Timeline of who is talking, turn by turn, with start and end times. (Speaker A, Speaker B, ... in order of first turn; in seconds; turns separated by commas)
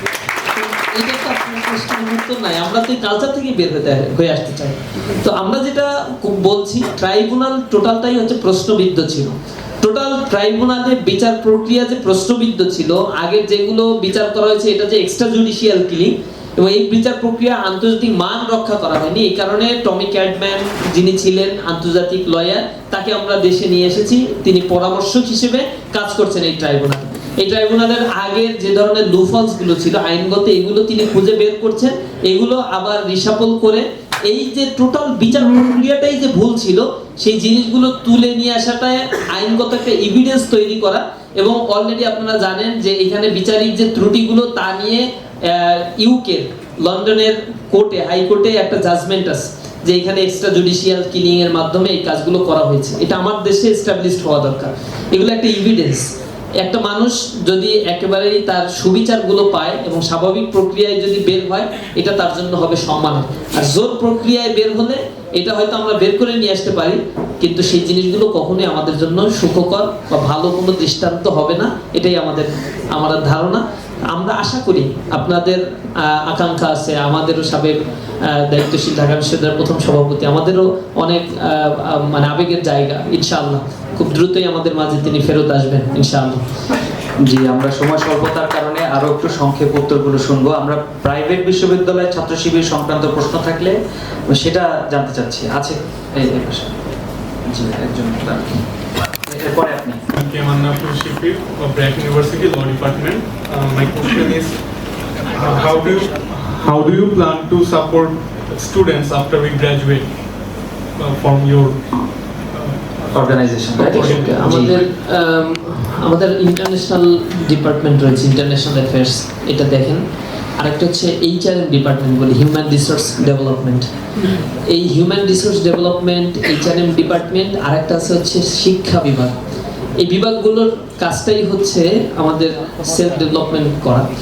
Speaker A: 0.5-77.8, Speaker A: 78.3-86.4, Speaker B: 87.2-93.8, Speaker B: 94.3-96.7, Speaker B: 97.5-98.6, Speaker B: 99.3-100.0, Speaker C: 100.2-104.6, Speaker C: 105.4-110.1, Speaker C: 111.0-111.8, Speaker B: 113.1-114.7, Speaker C: 113.8-114.5, Speaker A: 114.2-120.0, Speaker A: 120.6-123.9, Speaker A: 124.7-129.3, Speaker A: 130.0-134.1